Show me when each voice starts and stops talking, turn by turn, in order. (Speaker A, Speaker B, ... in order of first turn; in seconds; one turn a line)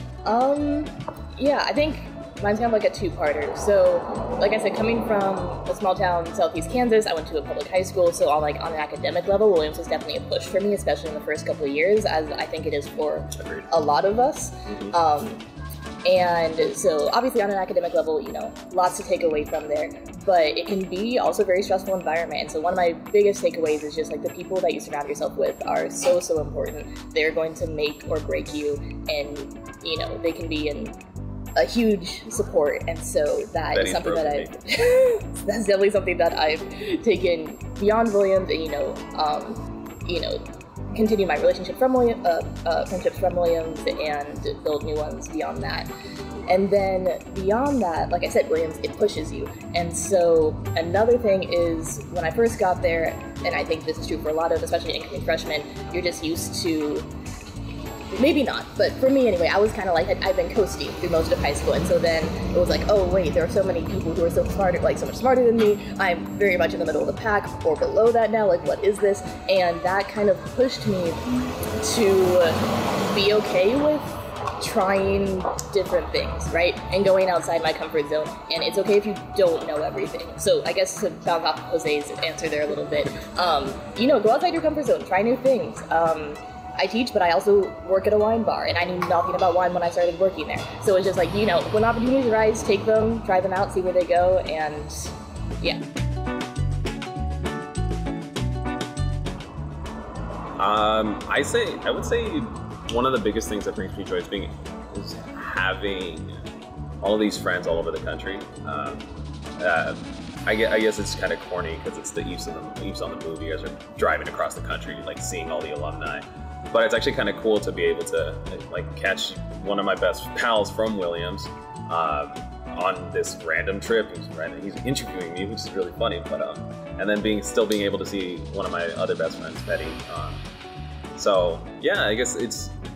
Speaker A: 0.2-15.4
Speaker B: 13.3-13.7
Speaker B: 14.7-14.9
Speaker A: 16.0-31.0
Speaker A: 31.6-45.9
Speaker B: 33.7-34.5
Speaker A: 46.5-57.1
Speaker A: 58.1-71.2
Speaker A: 71.8-95.8
Speaker B: 100.6-106.5
Speaker B: 107.0-130.4
Speaker B: 131.1-132.7